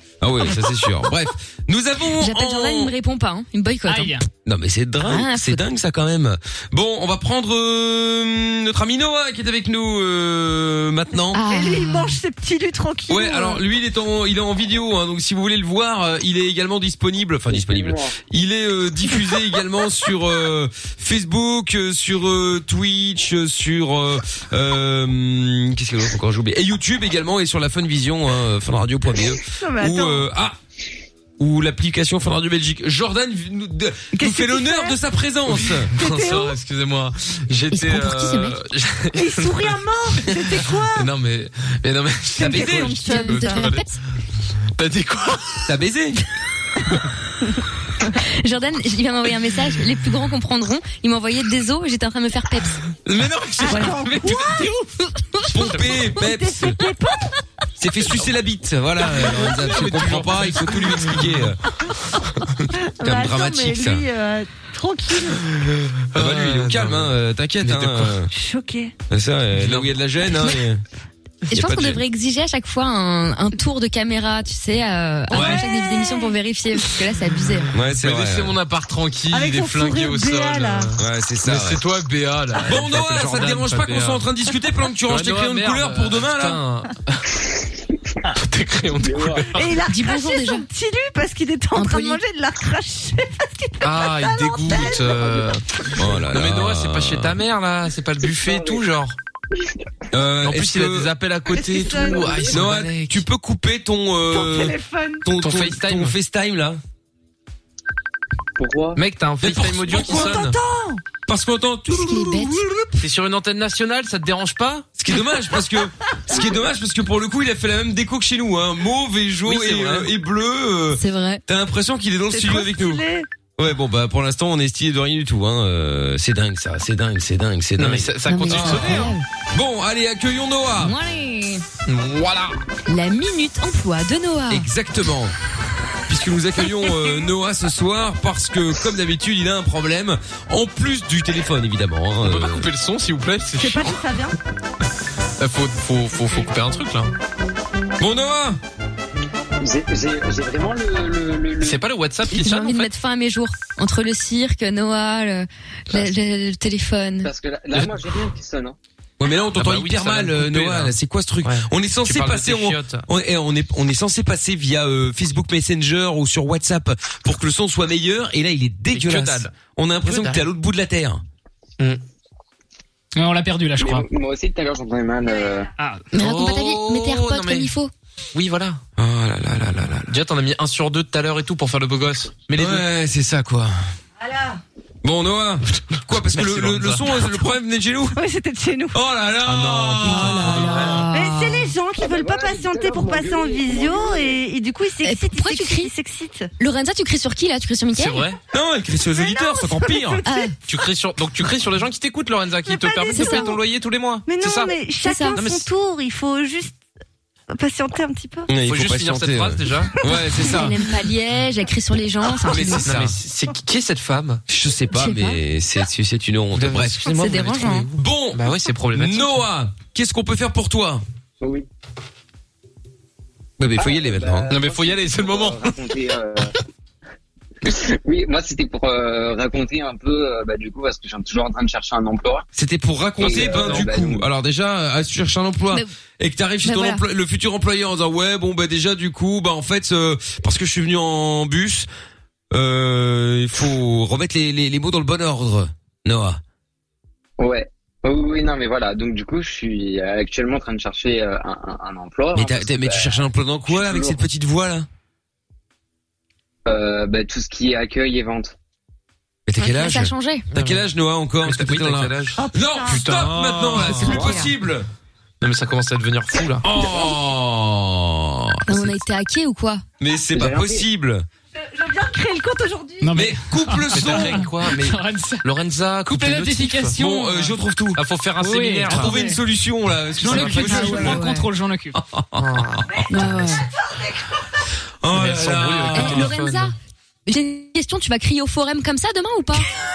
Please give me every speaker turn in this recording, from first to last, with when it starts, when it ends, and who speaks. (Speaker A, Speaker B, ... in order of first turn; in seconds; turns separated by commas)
Speaker A: 0.2-2.9, Speaker B: 2.2-4.2, Speaker C: 3.9-4.2, Speaker A: 4.4-11.4, Speaker B: 5.0-5.6, Speaker B: 11.3-12.2, Speaker D: 11.4-13.6, Speaker A: 13.1-30.6, Speaker E: 17.5-18.1, Speaker D: 29.5-30.2, Speaker A: 31.4-35.9, Speaker D: 34.1-35.0, Speaker F: 35.6-39.8, Speaker D: 35.9-36.5, Speaker B: 37.7-38.6, Speaker D: 39.1-41.1, Speaker F: 40.9-43.9, Speaker D: 42.3-43.7, Speaker A: 42.4-43.0, Speaker B: 43.0-44.0, Speaker F: 44.7-45.7, Speaker A: 45.6-46.2, Speaker B: 48.2-52.8, Speaker F: 53.1-54.7, Speaker A: 53.2-53.9, Speaker D: 53.6-54.8, Speaker A: 55.5-56.8, Speaker F: 55.6-56.0, Speaker D: 55.7-57.3, Speaker A: 57.8-61.6, Speaker F: 59.3-61.3, Speaker D: 63.0-65.4, Speaker A: 63.0-64.0, Speaker F: 66.1-68.2, Speaker A: 66.1-68.3, Speaker D: 68.3-68.9, Speaker A: 69.1-70.8, Speaker F: 69.6-69.9, Speaker B: 71.5-77.7, Speaker A: 71.5-72.0, Speaker D: 75.3-76.3, Speaker A: 75.3-75.6, Speaker A: 77.7-78.5, Speaker F: 77.8-84.2, Speaker D: 79.3-80.9, Speaker A: 81.0-81.8, Speaker A: 82.6-86.6, Speaker F: 85.0-87.2, Speaker F: 88.3-89.7, Speaker D: 89.5-95.5, Speaker B: 89.9-90.6, Speaker B: 91.7-92.2, Speaker F: 93.8-99.2, Speaker A: 95.9-97.4, Speaker E: 98.2-98.8, Speaker A: 100.1-101.1, Speaker F: 100.4-103.2, Speaker D: 101.5-102.5, Speaker E: 102.0-102.7, Speaker A: 102.5-106.8, Speaker D: 104.3-105.2, Speaker F: 105.4-106.1, Speaker E: 108.6-109.0, Speaker F: 108.9-110.5, Speaker A: 109.4-110.5, Speaker D: 109.9-111.0, Speaker A: 111.3-113.0, Speaker B: 111.9-112.7, Speaker F: 113.0-114.9, Speaker A: 115.0-123.0, Speaker F: 119.4-120.1, Speaker B: 120.9-121.4, Speaker D: 122.3-123.3, Speaker A: 123.6-130.9, Speaker F: 127.8-129.1, Speaker B: 128.2-129.2, Speaker B: 130.8-131.6, Speaker F: 131.9-132.6, Speaker B: 132.9-134.7, Speaker A: 134.5-135.3, Speaker A: 136.1-142.7, Speaker F: 142.2-144.0, Speaker D: 143.6-144.4, Speaker F: 145.4-147.1, Speaker A: 148.0-148.6, Speaker E: 149.6-151.8, Speaker F: 151.6-152.9, Speaker B: 152.3-157.3, Speaker E: 157.2-158.8, Speaker A: 159.2-171.2, Speaker F: 159.6-160.9, Speaker F: 161.4-163.0, Speaker F: 168.9-170.4, Speaker C: 173.2-174.1, Speaker E: 173.8-175.7, Speaker D: 175.2-175.6, Speaker C: 175.8-176.1, Speaker B: 176.1-177.9, Speaker F: 176.1-177.7, Speaker F: 178.3-178.8, Speaker A: 179.0-180.1, Speaker F: 180.0-182.8, Speaker A: 182.6-183.8, Speaker D: 184.2-184.6, Speaker A: 185.0-188.2, Speaker F: 186.1-187.2, Speaker D: 188.1-189.0, Speaker A: 188.9-190.9, Speaker F: 189.4-191.1, Speaker B: 190.0-191.7, Speaker D: 191.1-196.5, Speaker E: 192.0-194.4, Speaker B: 195.0-195.9, Speaker B: 196.6-198.3, Speaker F: 197.9-198.4, Speaker A: 198.5-200.2, Speaker D: 199.0-200.6, Speaker B: 200.2-200.5, Speaker F: 200.7-204.8, Speaker D: 202.6-203.6, Speaker B: 203.1-203.5, Speaker D: 204.2-206.7, Speaker B: 205.0-205.4, Speaker F: 205.3-205.7, Speaker D: 207.5-208.5, Speaker A: 208.5-210.8, Speaker F: 208.6-210.0, Speaker B: 210.4-212.9, Speaker A: 212.5-213.2, Speaker F: 212.8-214.4, Speaker A: 214.5-217.2, Speaker B: 214.9-215.4, Speaker F: 216.5-219.4, Speaker B: 217.1-217.9, Speaker A: 217.9-221.0, Speaker E: 221.4-221.7, Speaker A: 223.6-224.5, Speaker E: 223.7-226.5, Speaker F: 224.5-225.8, Speaker E: 227.6-232.4, Speaker A: 232.5-241.9, Speaker E: 233.2-234.3, Speaker F: 233.2-234.0, Speaker B: 236.6-237.0, Speaker A: 242.5-246.4, Speaker E: 247.4-254.2, Speaker A: 252.3-254.9, Speaker E: 256.6-258.6, Speaker A: 259.4-264.9, Speaker B: 259.6-260.4, Speaker F: 260.5-260.8, Speaker F: 261.4-264.3, Speaker D: 262.4-263.0, Speaker B: 264.0-264.5, Speaker E: 264.1-264.4, Speaker F: 265.4-266.6, Speaker A: 266.6-269.0, Speaker B: 268.7-269.8, Speaker A: 270.0-271.2, Speaker E: 270.3-270.9, Speaker D: 271.6-273.1, Speaker C: 273.0-275.4, Speaker A: 273.1-274.5, Speaker F: 273.9-276.9, Speaker C: 276.1-277.6, Speaker A: 276.9-278.0, Speaker F: 277.9-279.1, Speaker C: 278.4-279.4, Speaker A: 278.9-281.2, Speaker C: 280.2-282.0, Speaker F: 280.2-281.1, Speaker B: 280.5-281.5, Speaker A: 281.9-282.8, Speaker F: 282.4-283.5, Speaker B: 283.1-283.6, Speaker D: 283.9-284.2, Speaker A: 285.0-286.3, Speaker F: 285.1-286.7, Speaker B: 285.9-286.7, Speaker B: 287.2-289.7